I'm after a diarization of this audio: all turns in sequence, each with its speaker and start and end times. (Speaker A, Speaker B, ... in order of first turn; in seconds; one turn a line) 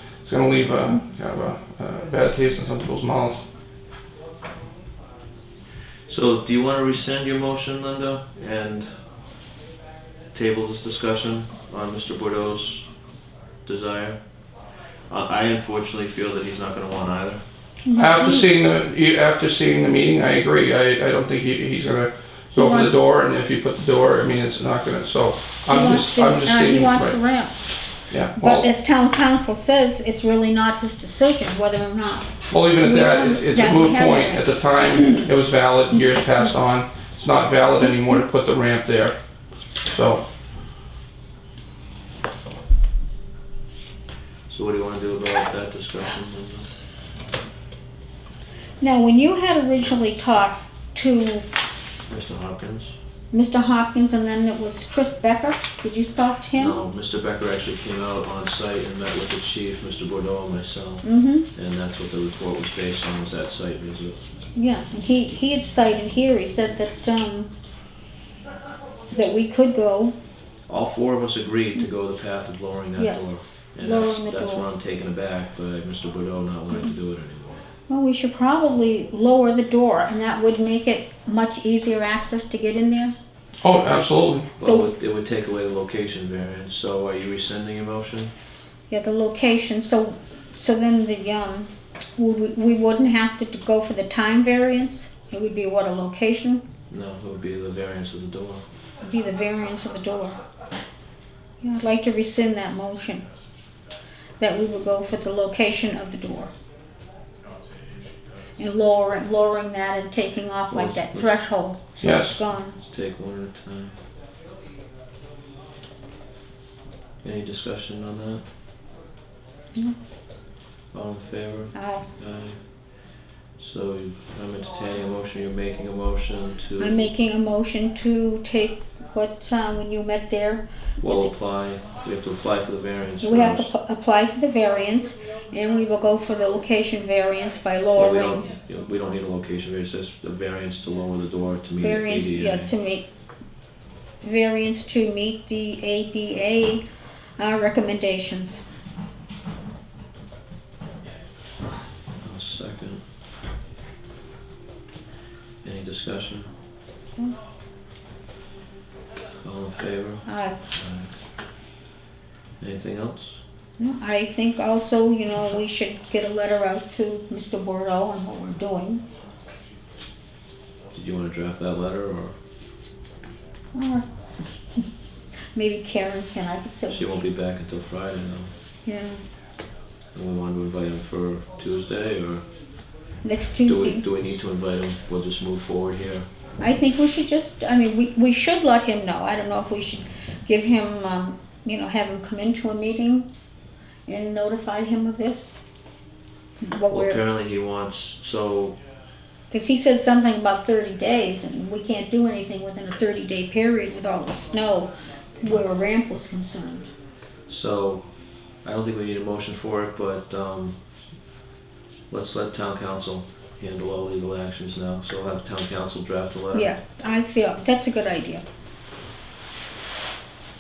Speaker A: 0.2-3.4
Speaker B: 6.1-9.0
Speaker B: 10.3-12.9
Speaker B: 13.7-14.2
Speaker B: 15.1-17.4
Speaker C: 17.9-18.5
Speaker A: 18.0-27.2
Speaker C: 22.6-23.0
Speaker C: 25.7-27.5
Speaker A: 28.1-28.7
Speaker C: 28.4-34.5
Speaker A: 32.5-39.1
Speaker A: 39.9-40.2
Speaker B: 44.5-46.7
Speaker C: 48.8-51.5
Speaker B: 52.1-52.9
Speaker C: 53.3-56.8
Speaker B: 56.6-64.2
Speaker C: 61.0-61.5
Speaker C: 64.5-67.5
Speaker C: 69.1-70.2
Speaker B: 70.7-77.6
Speaker C: 73.0-73.2
Speaker C: 73.8-74.7
Speaker C: 77.9-83.2
Speaker A: 83.6-84.5
Speaker C: 84.6-84.9
Speaker B: 84.6-88.3
Speaker C: 88.9-96.7
Speaker B: 96.9-98.6
Speaker C: 99.0-100.4
Speaker C: 101.6-103.2
Speaker C: 104.4-106.5
Speaker C: 108.6-112.8
Speaker B: 110.7-111.3
Speaker A: 112.0-112.4
Speaker B: 112.8-113.9
Speaker B: 117.2-118.4
Speaker B: 120.9-122.6
Speaker C: 121.7-122.1
Speaker B: 123.6-127.1
Speaker C: 126.8-131.3
Speaker B: 131.0-133.7
Speaker C: 133.2-138.5
Speaker B: 138.0-142.7
Speaker C: 141.8-143.1
Speaker C: 144.2-146.8
Speaker C: 147.4-148.6
Speaker B: 152.2-153.0
Speaker B: 155.6-156.5
Speaker B: 159.4-161.1
Speaker C: 160.3-160.6
Speaker B: 162.6-163.4
Speaker C: 163.8-169.0
Speaker B: 170.9-172.4
Speaker C: 173.7-174.1
Speaker C: 175.6-177.0
Speaker B: 176.9-178.5
Speaker C: 178.9-179.2
Speaker B: 180.1-182.4
Speaker C: 183.2-184.1
Speaker B: 183.6-186.3
Speaker C: 186.6-193.3
Speaker C: 194.1-195.6
Speaker C: 196.6-197.2
Speaker B: 196.9-198.8
Speaker C: 199.5-206.9
Speaker B: 207.5-208.1
Speaker B: 208.6-210.8
Speaker B: 212.1-216.7
Speaker C: 216.5-218.4